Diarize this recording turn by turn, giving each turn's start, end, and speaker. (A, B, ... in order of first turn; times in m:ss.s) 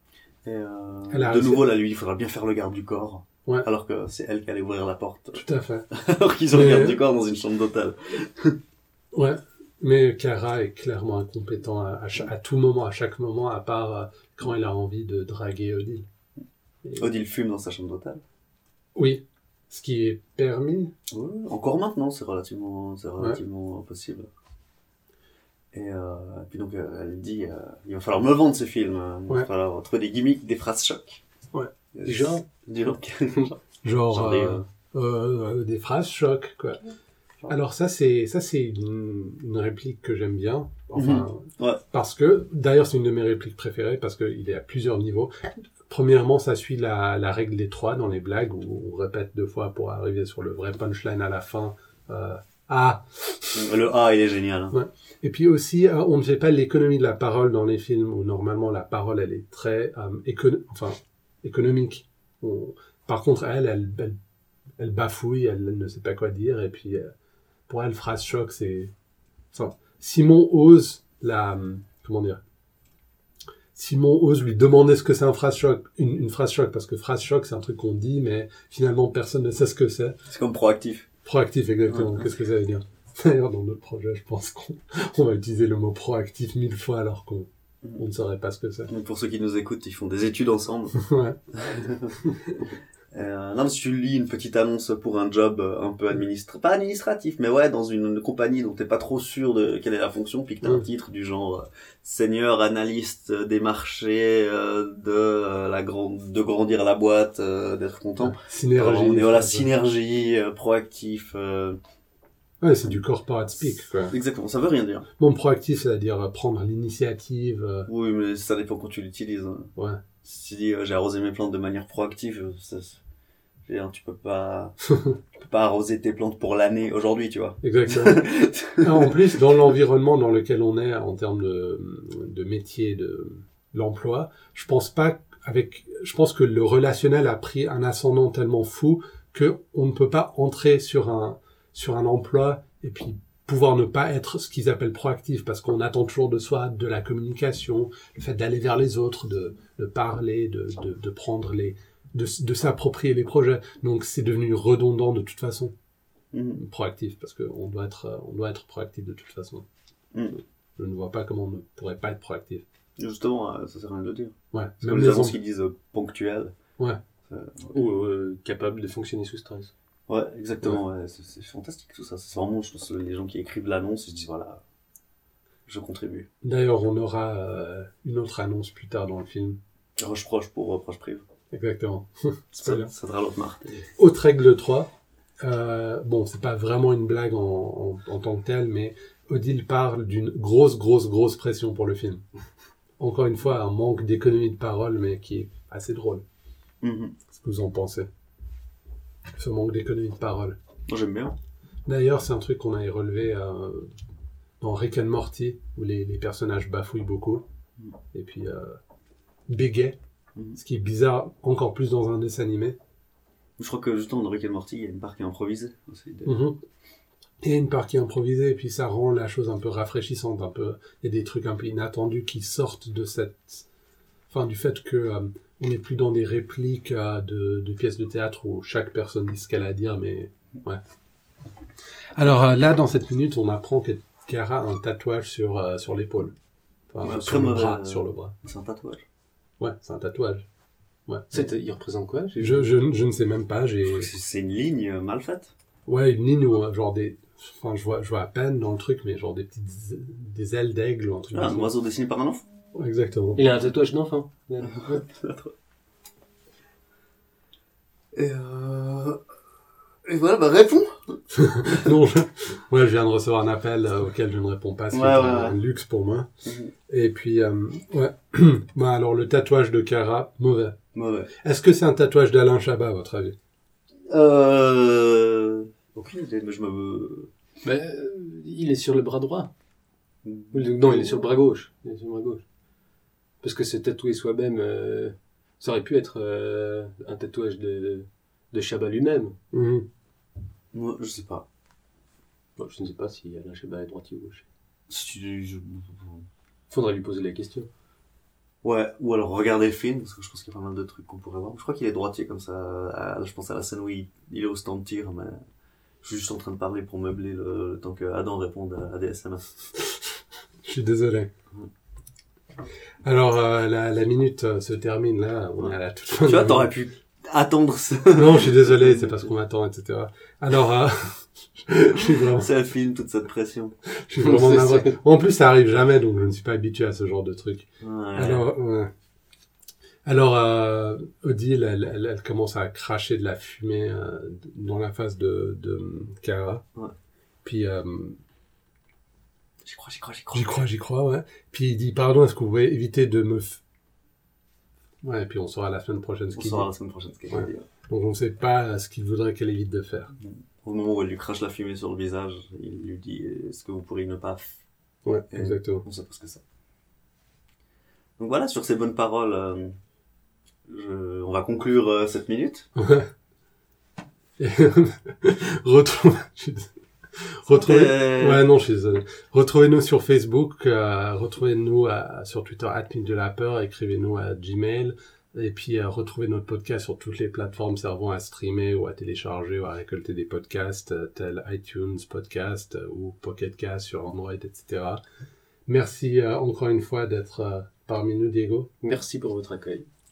0:00.4-0:08.6 A
0:01.1-0:01.6 B
0:05.4-0:05.8 B
0:06.5-0:07.0 B
0:09.1-0:16.1 B
0:17.0-0:18.2 A
0:18.9-0:20.9 B
0:21.1-0:24.3 A
0:25.7-0:31.2 A
0:31.9-0:33.6 A
0:32.0-0:32.4 C
0:33.8-0:36.8 B
0:34.1-0:34.6 A
0:37.5-0:45.3 B
0:40.9-0:41.8 A
0:45.9-0:53.7 B
0:53.5-0:54.7 A
0:54.7-1:04.2 B
1:04.8-1:07.1 B
1:07.7-1:08.9 B
1:09.5-1:12.4 B
1:13.7-1:20.2 B
1:20.3-1:21.1 A
1:21.2-1:28.9 B
1:21.9-1:22.3 A
1:28.9-1:30.9 A
1:31.0-1:31.4 B
1:31.6-1:32.2 A
1:32.2-1:32.6 B
1:33.1-1:51.8 A
1:48.2-1:49.7 B
1:52.6-1:54.1 B
1:54.0-1:55.1 A
1:55.2-1:57.9 B
1:57.9-1:59.7 A
2:00.2-2:03.0 A
2:03.6-2:04.8 A
2:05.4-2:09.4 A
2:07.6-2:08.2 B
2:08.8-2:35.7 B
2:36.3-2:36.6 A
2:36.6-2:39.6 B
2:40.1-2:40.4 A
2:40.8-2:42.6 B
2:43.0-2:46.5 A
2:44.5-2:45.4 B
2:47.3-2:47.8 A
2:47.7-2:49.7 C
2:50.1-2:54.6 A
2:55.7-2:56.3 A
2:56.4-2:59.6 B
3:00.0-3:01.2 A
3:01.5-3:02.9 B
3:02.5-3:03.8 A
3:04.0-3:04.9 B
3:05.4-3:12.2 B
3:13.0-3:16.2 B
3:16.8-3:17.1 A
3:17.3-3:18.1 B
3:19.3-3:20.6 B
3:20.9-3:21.3 A
3:21.8-3:23.9 B
3:24.6-3:27.4 B
3:28.1-3:28.8 B
3:29.5-3:30.0 B
3:30.6-3:32.8 B
3:33.6-3:36.4 A
3:36.2-3:36.6 B
3:37.4-3:43.6 B
3:44.3-3:50.8 B
3:52.2-3:56.3 B
3:56.9-3:58.3 B
3:57.0-3:59.0 A
3:59.6-4:00.4 B
4:01.1-4:01.4 B
4:01.3-4:02.7 C
4:02.4-4:04.1 B
4:03.8-4:05.5 A
4:05.8-4:11.7 B
4:11.3-4:12.4 A
4:12.7-4:13.4 B
4:13.4-4:15.0 C
4:14.6-4:15.5 A
4:18.1-4:19.2 A
4:20.0-4:21.9 A
4:21.3-4:26.3 B
4:24.9-4:25.6 A
4:26.4-4:26.7 A
4:26.9-4:30.8 B
4:30.9-4:31.3 A
4:31.4-4:33.3 B
4:34.1-4:37.3 A
4:37.6-4:39.5 C
4:40.2-4:41.2 A
4:40.5-4:42.4 C
4:43.4-4:49.4 C
4:49.5-4:49.8 B
4:50.7-4:51.4 A
4:52.6-4:54.4 C
4:54.9-4:56.2 A
4:56.7-4:57.7 C
4:58.6-5:05.4 A
5:06.0-5:09.5 A
5:10.6-5:11.3 B
5:13.0-5:16.7 B
5:15.6-5:19.1 A
5:18.1-5:22.5 B
5:22.2-5:23.7 A
5:24.0-5:28.9 B
5:24.2-5:25.0 C
5:27.8-5:28.4 A
5:30.0-5:36.6 B
5:37.4-5:38.2 B
5:39.6-5:40.6 A
5:40.3-5:43.6 B
5:45.0-5:46.7 B
5:46.3-5:47.6 A
5:47.3-5:50.1 B
5:50.2-5:54.6 A
5:55.0-5:55.8 B
5:55.3-5:56.4 A
5:58.2-5:59.8 A
6:00.7-6:02.7 A
6:02.8-6:03.1 B
6:04.4-6:25.0 B
6:07.5-6:08.5 A
6:25.7-6:28.7 B
6:28.8-6:29.9 C